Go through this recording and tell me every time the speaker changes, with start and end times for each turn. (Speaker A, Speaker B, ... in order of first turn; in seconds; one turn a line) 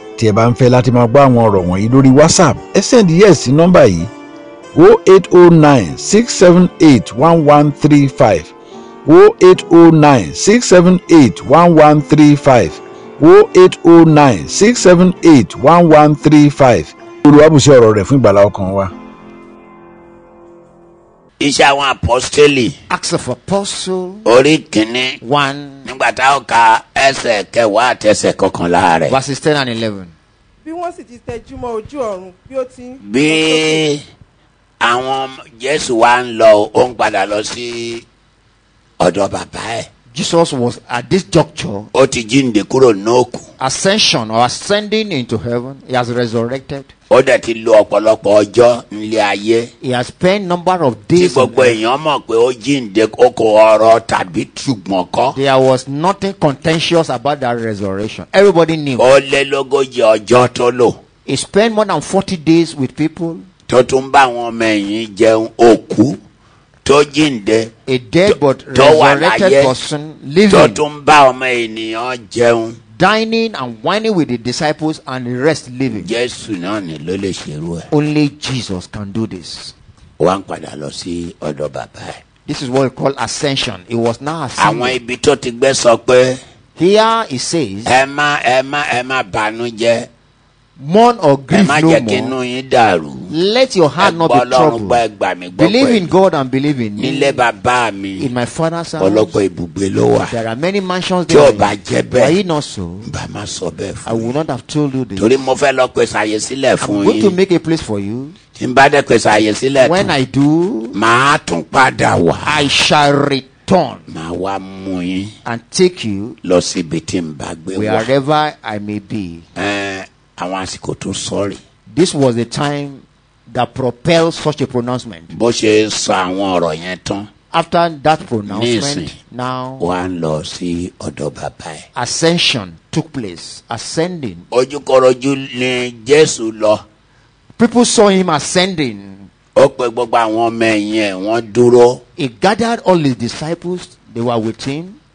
Speaker A: 0.2-4.1
Speaker A: 4.8-8.5
Speaker A: 9.1-18.9
Speaker B: 21.4-22.8
Speaker C: 22.9-24.3
Speaker B: 24.2-25.2
Speaker C: 25.2-25.9
Speaker B: 25.9-29.2
Speaker C: 29.1-30.1
Speaker D: 30.6-33.8
Speaker B: 33.0-34.0
Speaker B: 34.8-38.0
Speaker B: 39.0-39.9
Speaker C: 40.1-41.9
Speaker B: 41.9-43.5
Speaker C: 43.6-46.9
Speaker B: 47.1-49.7
Speaker C: 49.8-51.8
Speaker B: 51.1-55.4
Speaker C: 55.3-59.1
Speaker B: 59.0-61.0
Speaker C: 61.3-63.5
Speaker B: 63.7-66.2
Speaker B: 66.8-67.7
Speaker C: 67.9-70.8
Speaker B: 68.7-69.7
Speaker B: 70.5-72.8
Speaker C: 73.0-76.1
Speaker B: 75.9-77.9
Speaker C: 77.9-79.8
Speaker B: 80.2-82.2
Speaker C: 82.5-85.0
Speaker B: 84.6-86.4
Speaker C: 86.8-87.9
Speaker B: 87.8-90.1
Speaker C: 90.8-92.3
Speaker B: 91.5-93.3
Speaker C: 93.3-95.0
Speaker B: 94.0-96.1
Speaker C: 95.5-97.4
Speaker B: 97.0-98.3
Speaker C: 98.2-99.4
Speaker B: 99.0-100.3
Speaker C: 100.3-103.1
Speaker B: 101.3-102.4
Speaker B: 103.1-104.3
Speaker C: 104.0-105.5
Speaker B: 105.2-107.4
Speaker C: 106.8-108.3
Speaker B: 108.6-110.2
Speaker C: 109.8-111.0
Speaker B: 110.9-112.7
Speaker C: 112.4-114.1
Speaker B: 114.1-115.3
Speaker C: 115.5-116.4
Speaker B: 116.4-118.1
Speaker C: 117.7-119.5
Speaker B: 119.6-121.6
Speaker C: 121.9-125.3
Speaker B: 125.3-127.3
Speaker C: 127.5-129.9
Speaker B: 128.5-129.2
Speaker B: 129.8-131.9
Speaker C: 131.9-134.5
Speaker B: 134.5-136.8
Speaker C: 137.6-139.3
Speaker B: 139.6-142.0
Speaker C: 142.2-145.0